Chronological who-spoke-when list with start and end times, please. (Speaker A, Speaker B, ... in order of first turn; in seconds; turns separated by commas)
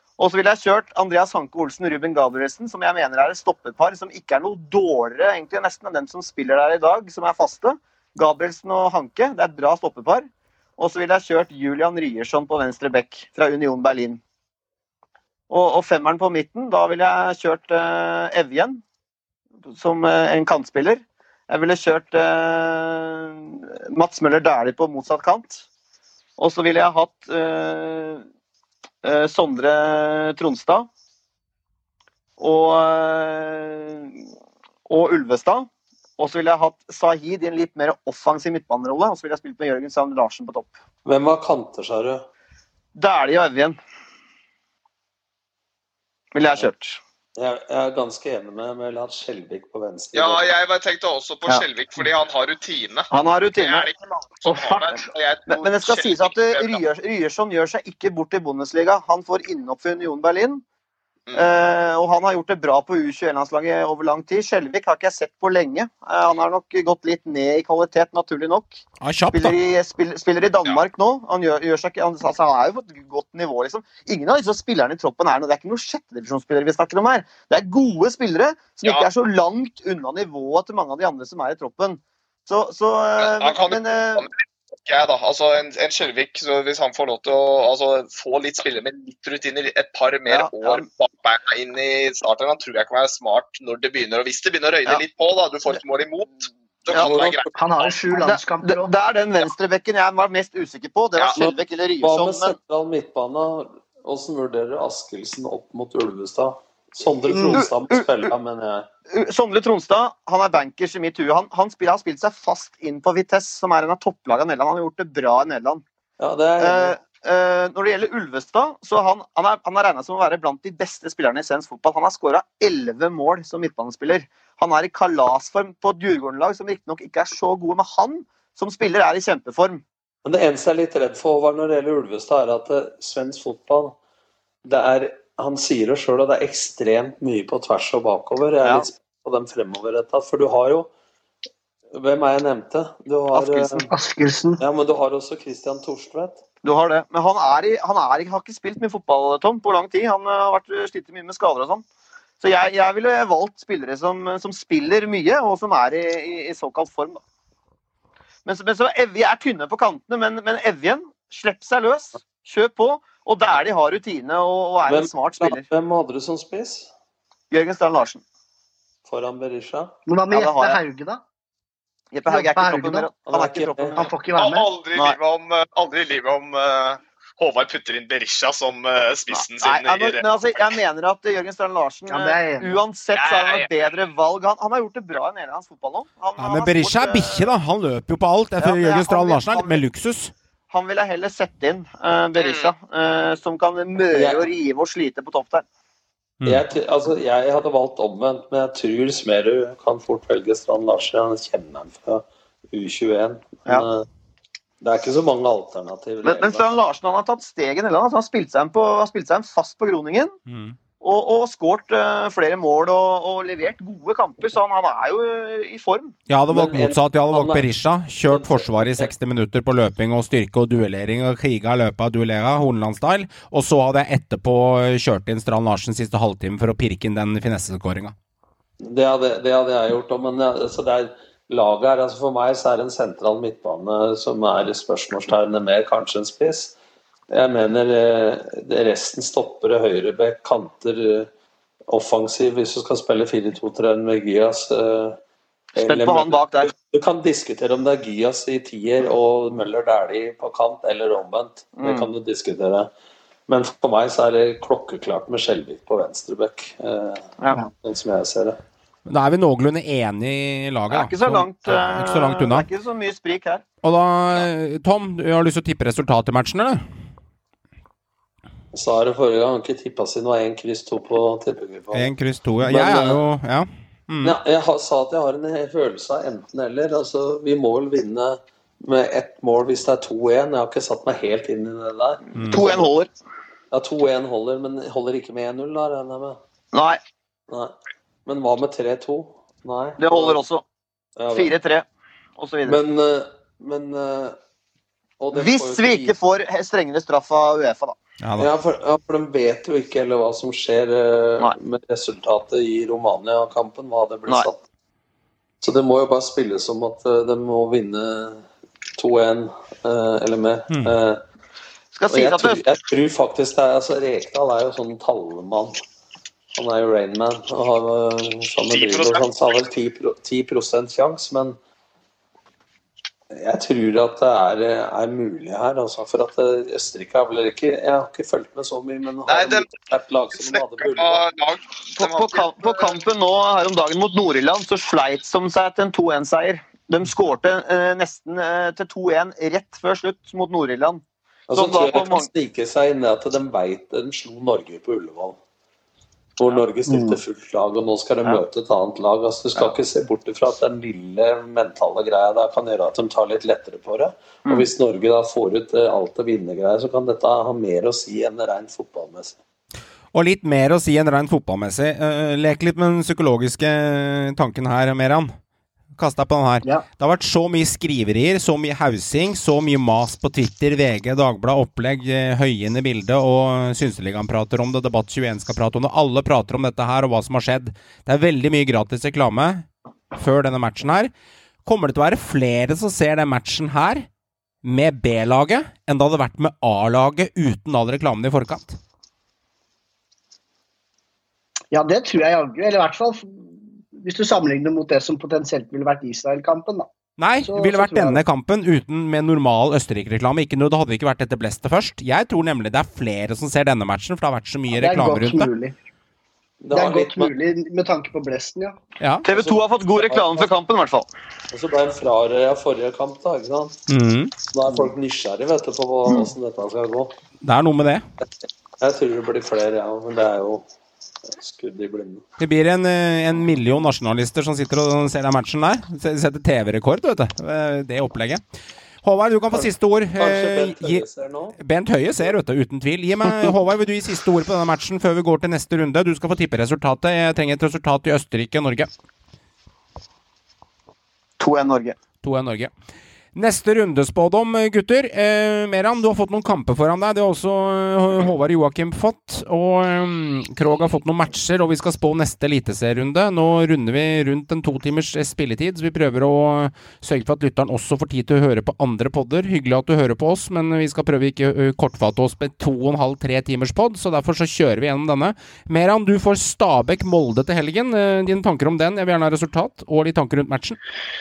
Speaker A: 0.2-14.2, Speaker A: 15.5-18.8, Speaker A: 19.7-25.6, Speaker A: 26.4-28.2, Speaker A: 29.0-30.9, Speaker A: 32.4-34.1, Speaker A: 34.9-40.8, Speaker B: 41.0-42.3, Speaker A: 43.0-43.8, Speaker A: 46.3-47.0, Speaker B: 47.4-50.4, Speaker C: 50.1-56.8, Speaker A: 53.1-53.9, Speaker D: 54.5-55.0, Speaker A: 55.5-60.6, Speaker A: 61.3-68.8, Speaker E: 69.0-69.6, Speaker A: 69.3-84.3, Speaker C: 78.8-79.1, Speaker C: 83.2-97.9, Speaker A: 90.3-90.8, Speaker A: 96.9-97.4, Speaker D: 97.5-98.9, Speaker A: 98.1-102.5, Speaker B: 101.3-108.9, Speaker A: 107.2-108.2, Speaker A: 109.1-115.8, Speaker B: 116.2-117.0, Speaker A: 116.6-129.8, Speaker B: 130.2-133.9, Speaker B: 134.6-140.9, Speaker B: 141.9-143.9, Speaker A: 143.3-143.7, Speaker D: 143.8-144.6, Speaker B: 144.6-146.4, Speaker A: 146.6-151.8, Speaker A: 152.4-157.2, Speaker A: 158.4-165.6, Speaker B: 164.8-166.9, Speaker A: 167.5-168.2, Speaker B: 169.1-169.9, Speaker D: 170.1-171.2, Speaker A: 170.3-170.8, Speaker A: 172.1-174.1, Speaker D: 172.3-173.1, Speaker B: 173.3-174.0, Speaker D: 173.9-174.7, Speaker C: 174.3-180.7, Speaker A: 179.3-187.5, Speaker D: 182.1-182.8, Speaker C: 183.1-183.9, Speaker E: 186.4-190.3, Speaker A: 188.6-189.8, Speaker A: 190.7-195.6, Speaker C: 192.3-192.7, Speaker B: 194.1-194.4, Speaker B: 196.4-204.1, Speaker B: 204.8-206.7, Speaker A: 206.2-210.3, Speaker E: 210.5-210.8, Speaker A: 211.0-216.1, Speaker E: 216.3-228.1, Speaker B: 216.5-217.7, Speaker B: 218.2-219.1, Speaker B: 228.8-236.7, Speaker B: 237.3-241.3, Speaker B: 241.9-245.2, Speaker A: 245.7-246.7, Speaker B: 245.8-252.9, Speaker A: 251.8-252.1, Speaker B: 253.5-258.6, Speaker E: 259.1-262.7, Speaker A: 260.9-263.6, Speaker E: 263.8-266.8, Speaker B: 268.7-272.1, Speaker E: 271.9-274.4, Speaker B: 272.6-273.2, Speaker B: 274.2-282.9, Speaker E: 282.3-282.7, Speaker A: 282.4-283.1, Speaker B: 283.7-286.4, Speaker A: 286.7-287.0, Speaker B: 287.5-290.4, Speaker A: 290.0-290.6, Speaker B: 291.2-291.5, Speaker A: 291.3-291.9, Speaker A: 292.4-292.8, Speaker B: 292.6-294.4, Speaker B: 295.2-296.2, Speaker A: 295.3-298.0, Speaker E: 298.2-298.5, Speaker B: 298.4-304.6, Speaker B: 305.6-308.4, Speaker B: 309.0-311.2, Speaker A: 311.9-312.6, Speaker B: 312.1-315.8, Speaker B: 316.5-321.6, Speaker C: 318.7-319.3, Speaker B: 323.3-331.2, Speaker C: 329.3-329.7, Speaker C: 330.3-333.0, Speaker A: 331.9-342.3, Speaker B: 341.5-345.4, Speaker B: 346.4-359.4, Speaker D: 346.9-347.2, Speaker E: 360.1-365.3, Speaker E: 365.9-381.1, Speaker E: 381.6-384.1, Speaker E: 384.6-388.8, Speaker D: 391.7-396.9, Speaker E: 397.2-405.5, Speaker D: 397.4-398.2, Speaker D: 404.7-405.7, Speaker B: 406.6-407.3, Speaker D: 406.7-408.8, Speaker E: 409.0-409.2, Speaker A: 409.2-411.1, Speaker B: 409.3-410.5, Speaker B: 411.5-413.8, Speaker E: 413.9-414.3, Speaker B: 414.5-417.1, Speaker E: 417.4-418.0, Speaker B: 418.8-420.6, Speaker B: 421.2-422.2, Speaker E: 422.4-428.4, Speaker E: 429.0-431.0, Speaker B: 429.5-431.6, Speaker E: 431.6-438.9, Speaker A: 441.4-441.9, Speaker E: 442.2-442.7, Speaker E: 443.3-470.8